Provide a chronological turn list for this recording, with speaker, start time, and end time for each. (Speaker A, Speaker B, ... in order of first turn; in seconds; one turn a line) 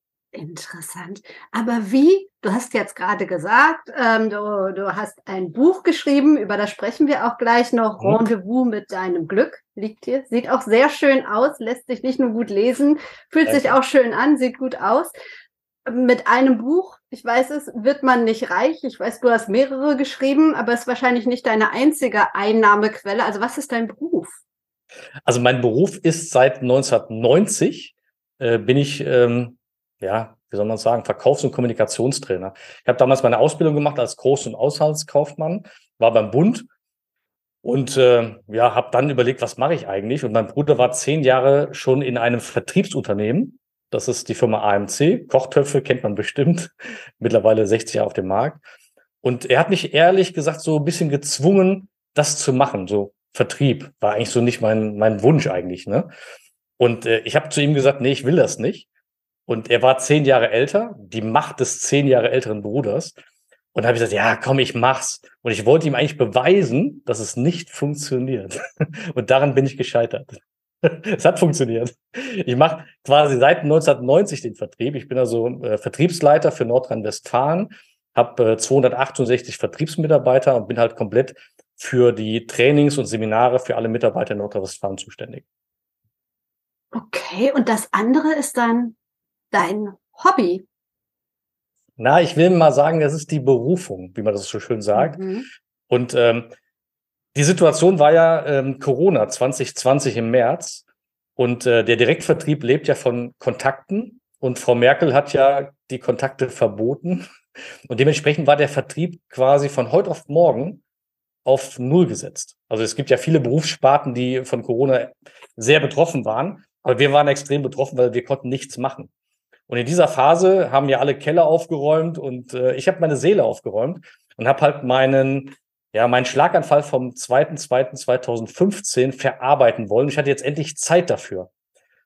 Speaker A: 0.3-15.1
Speaker B: 8.0-8.3
Speaker B: 13.4-13.8
Speaker A: 15.9-24.4
Speaker B: 25.2-36.7
Speaker B: 37.6-48.6
Speaker B: 49.2-56.1
Speaker B: 56.8-58.9
Speaker B: 59.5-63.1
Speaker B: 63.7-85.4
Speaker A: 86.9-89.0
Speaker A: 89.5-90.6
Speaker B: 92.0-95.2
Speaker A: 94.9-95.5
Speaker B: 95.9-96.5
Speaker B: 97.3-100.8
Speaker B: 101.4-107.2
Speaker B: 107.9-110.8
Speaker B: 111.4-119.1
Speaker B: 119.7-131.5